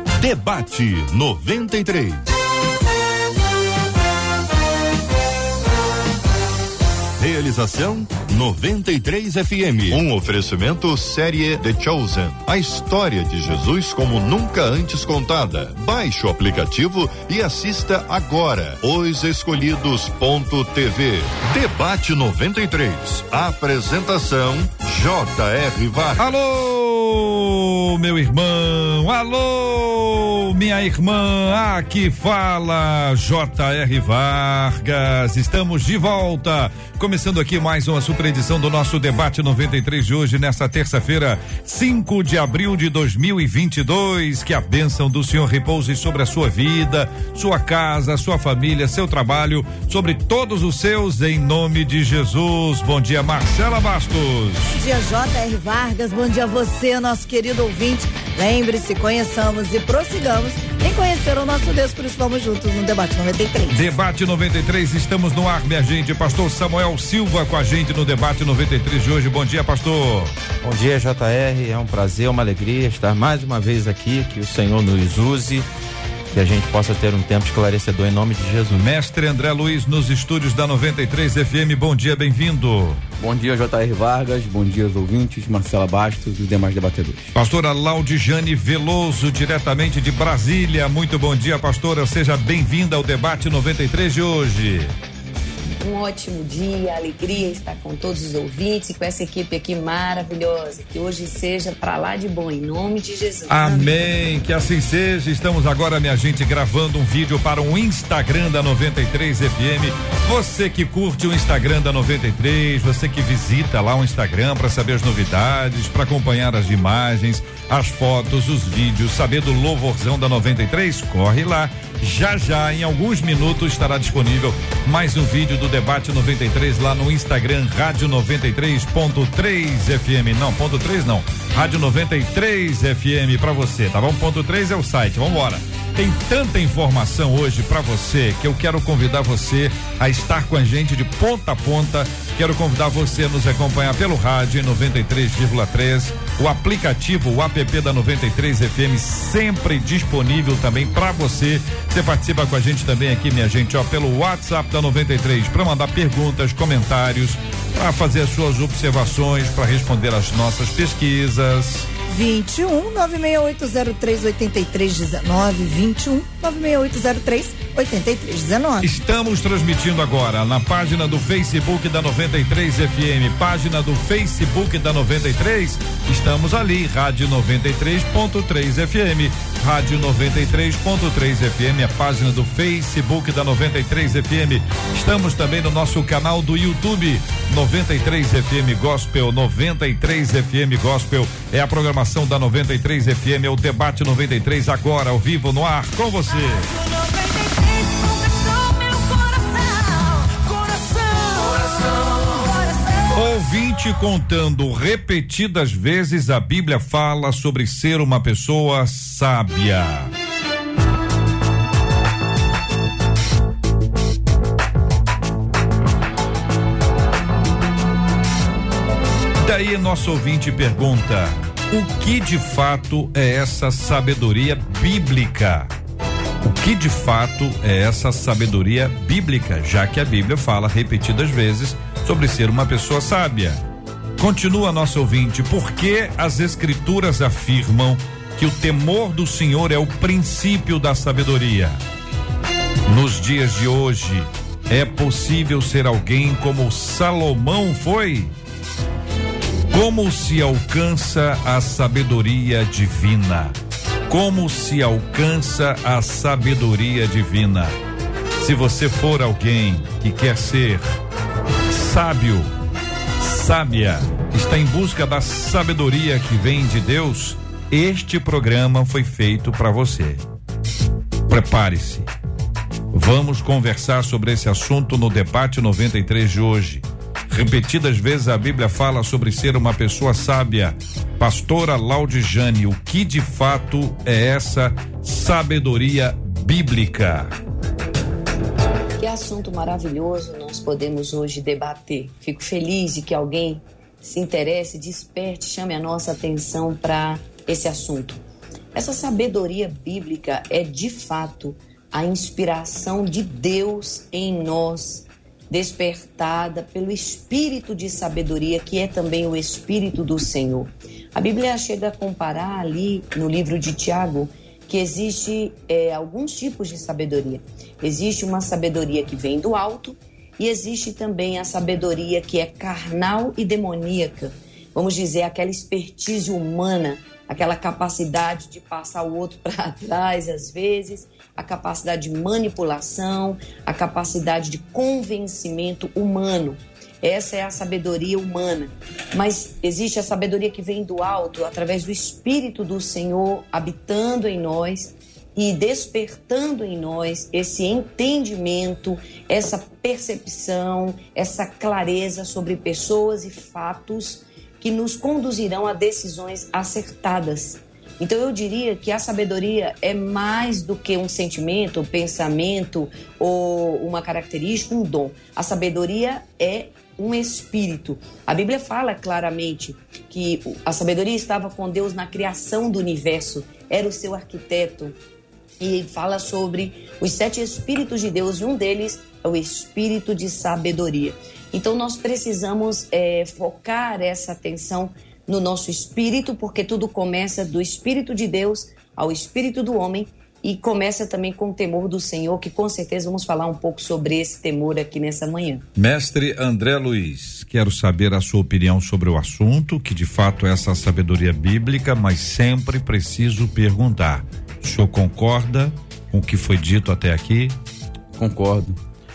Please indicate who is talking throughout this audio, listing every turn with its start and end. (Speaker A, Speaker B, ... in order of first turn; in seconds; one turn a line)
Speaker A: 0.2-2.2
Speaker A: 7.2-26.3
Speaker B: 26.2-54.8
Speaker C: 54.7-63.9
Speaker B: 63.7-70.3
Speaker D: 70.6-75.7
Speaker D: 76.3-78.9
Speaker B: 78.8-83.0
Speaker E: 83.2-87.3
Speaker B: 87.3-94.9
Speaker F: 95.8-103.9
Speaker B: 103.5-161.9
Speaker C: 162.1-168.8
Speaker B: 168.8-196.8
Speaker C: 196.8-201.7
Speaker B: 203.0-210.1
Speaker B: 219.4-225.7
Speaker B: 226.4-233.6
Speaker B: 234.2-241.8
Speaker B: 242.8-248.3
Speaker B: 249.7-253.5
Speaker B: 254.1-257.7
Speaker B: 258.4-260.9
Speaker B: 261.7-262.5
Speaker B: 263.2-270.2
Speaker B: 271.3-272.1
Speaker B: 272.9-287.3
Speaker F: 289.0-298.2
Speaker F: 298.7-375.0
Speaker F: 375.6-395.6
Speaker B: 395.8-407.5
Speaker E: 408.1-408.8